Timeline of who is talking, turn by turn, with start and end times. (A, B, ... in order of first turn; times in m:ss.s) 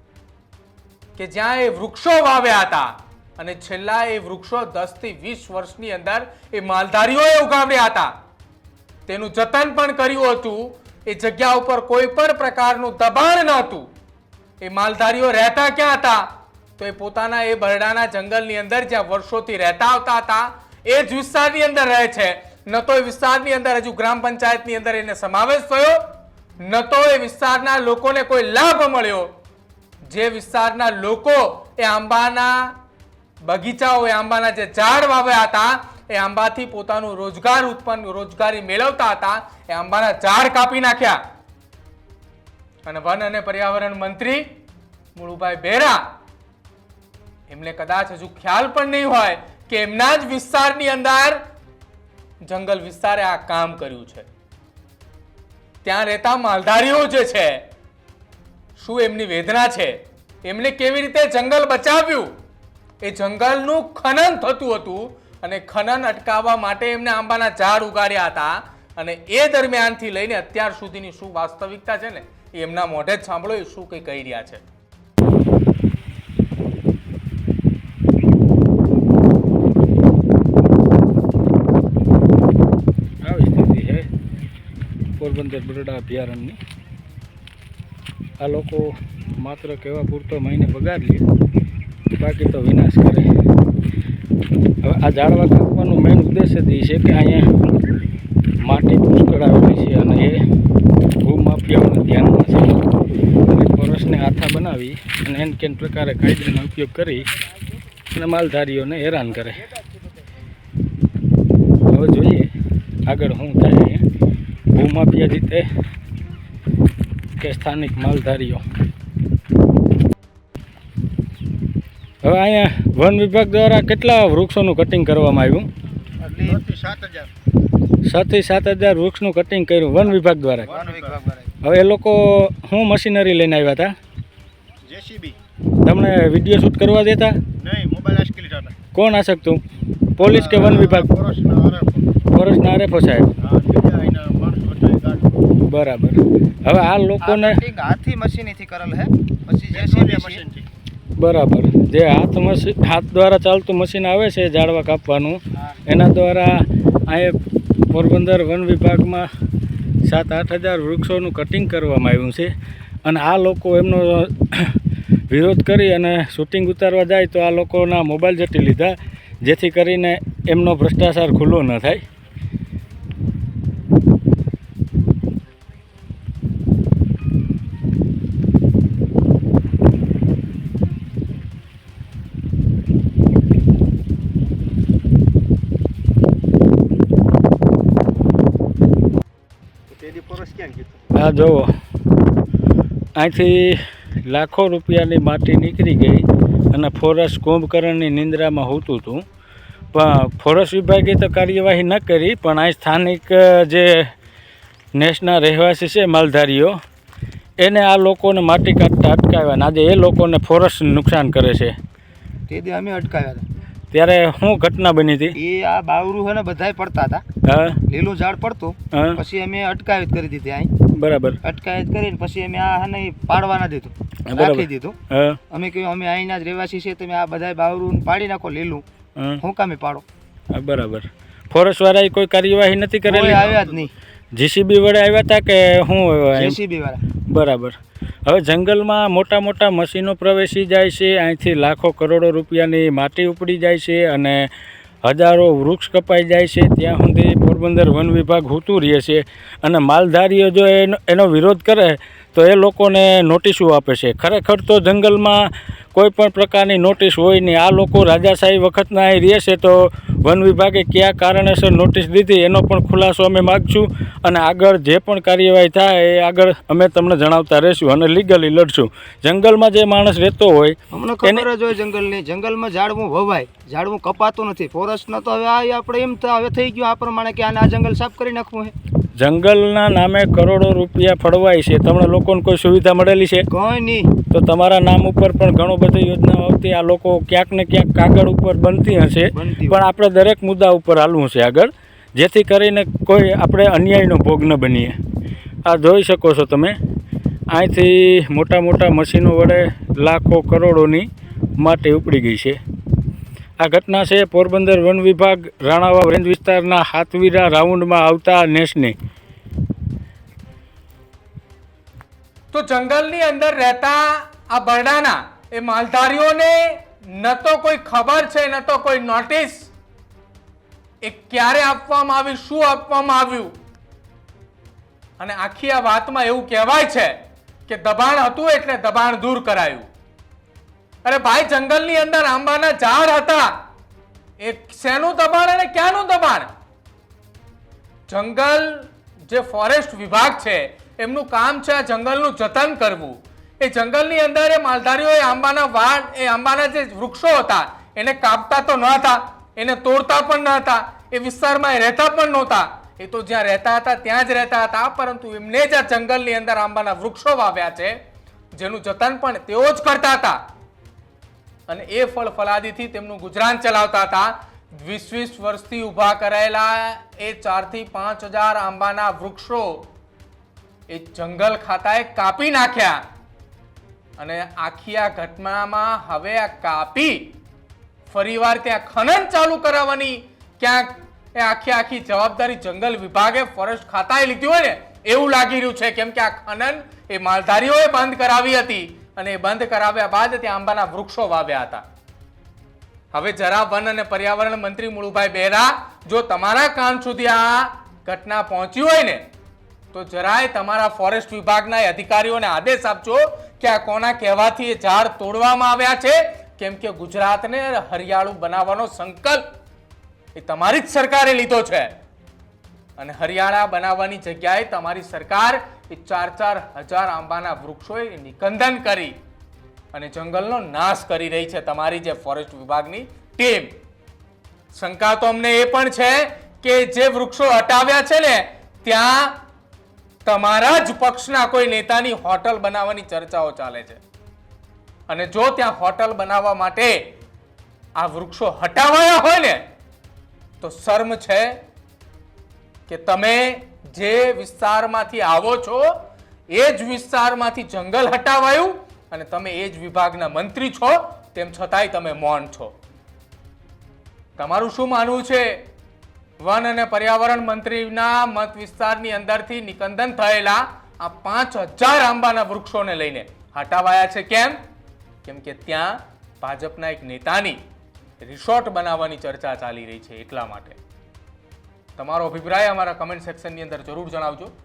0:01.2-0:08.1 A
0:09.1-0:13.9 A
0:14.6-0:16.2 A
0:16.8-0:26.0 A
0:26.6-0:29.3 A
0:30.1-0:32.7 A
0:33.4-0:41.2 A
0:42.8-0:44.5 A
0:45.2-0:46.0 A
0:47.5-0:51.4 A
0:52.4-0:54.3 A
0:55.8-0:57.6 A
0:58.8-1:02.3 A
1:03.0-1:14.6 A
1:23.2-1:24.1 B
1:25.2-1:26.6 B
1:28.4-1:31.2 B
1:32.1-1:33.3 B
1:34.8-1:37.5 B
1:38.6-1:40.4 B
1:41.2-1:42.8 B
1:43.4-1:47.3 B
1:48.1-1:49.6 B
1:51.9-1:52.5 B
1:53.1-1:54.0 B
1:54.7-1:55.7 B
1:57.4-1:58.6 B
2:02.2-2:05.7 B
2:06.2-2:06.6 C
2:06.5-2:07.3 D
2:08.0-2:10.7 B
2:10.6-2:11.2 D
2:10.7-2:11.5 C
2:11.6-2:13.9 B
2:14.9-2:15.4 D
2:15.8-2:17.4 B
2:17.6-2:18.8 D
2:18.9-2:19.6 B
2:20.2-2:21.1 B
2:20.2-2:22.1 D
2:22.3-2:23.3 B
2:23.4-2:25.4 D
2:25.6-2:27.6 B
2:27.2-2:30.4 C
2:29.7-2:30.7 D
2:31.2-2:37.4 B
2:37.9-2:39.3 B
2:40.0-2:42.5 B
2:43.0-2:44.8 B
2:45.3-2:52.0 B
3:09.9-3:11.1 D
3:11.2-3:11.7 B
3:13.2-3:19.2 B
3:19.9-3:24.1 B
3:25.0-3:26.8 B
3:27.6-3:31.8 B
3:32.5-3:33.4 C
3:33.9-3:35.4 B
3:35.4-3:37.2 C
3:37.5-3:37.8 B
3:37.9-3:40.7 C
3:38.9-3:39.2 B
3:40.9-3:41.4 B
3:41.4-3:45.0 C
3:44.3-3:45.4 B
3:45.5-3:48.8 C
3:49.4-3:50.0 C
3:50.5-3:53.7 B
3:53.1-3:53.9 C
3:54.4-3:56.6 B
3:56.4-3:57.0 C
3:57.3-4:04.5 B
4:05.0-4:31.4 B
4:30.9-4:38.7 C
4:39.2-4:43.5 B
4:43.5-4:44.1 C
4:44.3-4:55.0 B
4:49.3-4:49.8 C
4:55.7-4:56.8 B
4:57.5-5:02.6 B
5:03.6-5:09.0 B
5:12.5-5:19.7 A
5:21.0-5:23.5 A
5:25.2-5:27.2 A
5:27.7-5:29.9 A
5:31.0-5:33.5 A
5:34.4-5:36.5 A
5:38.1-5:58.0 A
5:58.6-6:00.4 A
6:01.7-6:09.8 A
6:10.9-6:13.0 A
6:14.2-6:17.3 A
6:18.1-6:31.8 A
6:33.1-6:39.2 A
6:39.9-6:49.4 A
6:50.4-6:51.9 A
6:53.0-6:59.2 A
6:59.9-7:03.7 A
7:04.8-7:09.4 A
7:10.2-7:14.0 A
7:15.1-7:17.0 A
7:18.0-7:19.6 A
7:20.6-7:21.6 A
7:22.9-7:25.9 A
7:26.5-7:32.7 A
7:34.4-7:35.6 A
7:36.4-7:44.6 A
7:45.2-7:47.6 A
7:48.2-7:50.8 A
7:52.0-7:54.5 A